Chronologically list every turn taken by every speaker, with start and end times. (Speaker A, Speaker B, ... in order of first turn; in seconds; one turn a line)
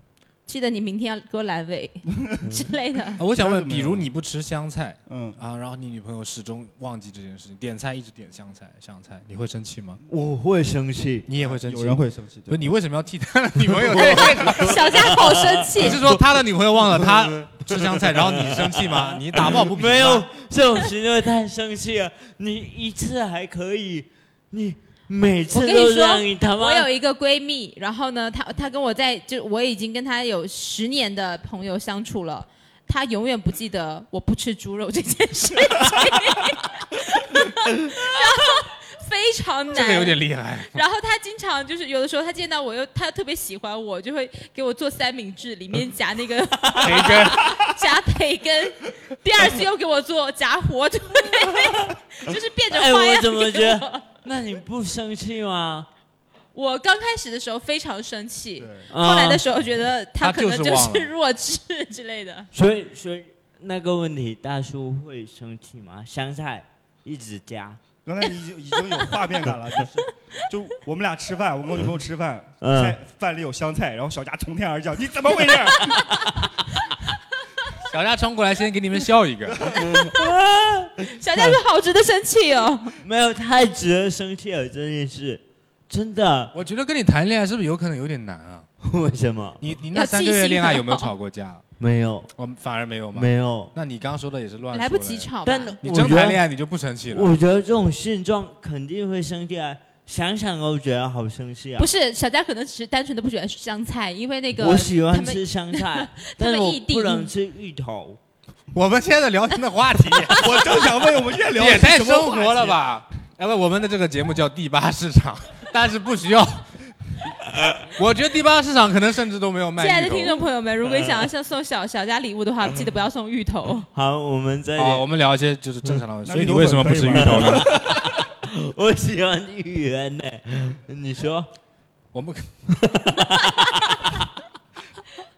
Speaker A: 0.5-3.2
Speaker B: 2.2-2.6
Speaker C: 3.2-10.0
Speaker B: 3.2-4.1
Speaker B: 5.1-5.4
Speaker D: 10.1-11.3
Speaker C: 11.3-14.9
Speaker B: 11.4-12.7
Speaker D: 13.8-16.2
Speaker A: 14.4-16.0
Speaker C: 15.8-20.3
Speaker D: 16.9-26.9
Speaker A: 25.5-40.2
Speaker C: 39.7-40.8
Speaker A: 40.7-54.1
Speaker C: 46.8-47.6
Speaker D: 46.8-47.3
Speaker D: 52.7-55.9
Speaker A: 56.5-62.5
Speaker B: 58.6-58.9
Speaker D: 58.9-59.4
Speaker C: 60.2-61.1
Speaker D: 62.5-67.8
Speaker B: 68.0-76.1
Speaker D: 72.6-73.0
Speaker D: 75.8-76.4
Speaker C: 77.8-79.8
Speaker B: 79.5-79.9
Speaker D: 79.8-81.6
Speaker A: 81.1-83.0
Speaker D: 83.0-86.5
Speaker C: 86.5-88.7
Speaker D: 88.8-89.6
Speaker C: 89.6-91.6
Speaker A: 89.9-91.1
Speaker D: 91.8-92.3
Speaker C: 92.4-95.3
Speaker D: 93.1-93.7
Speaker A: 94.7-95.8
Speaker D: 95.5-96.4
Speaker C: 95.8-97.3
Speaker D: 97.1-101.9
Speaker A: 101.8-107.3
Speaker D: 104.6-108.2
Speaker C: 108.7-116.7
Speaker B: 110.3-112.8
Speaker C: 117.8-120.4
Speaker A: 119.8-123.9
Speaker D: 123.9-125.1
Speaker C: 124.8-127.8
Speaker B: 126.3-128.1
Speaker D: 127.1-131.5
Speaker C: 132.1-132.7
Speaker D: 132.7-134.2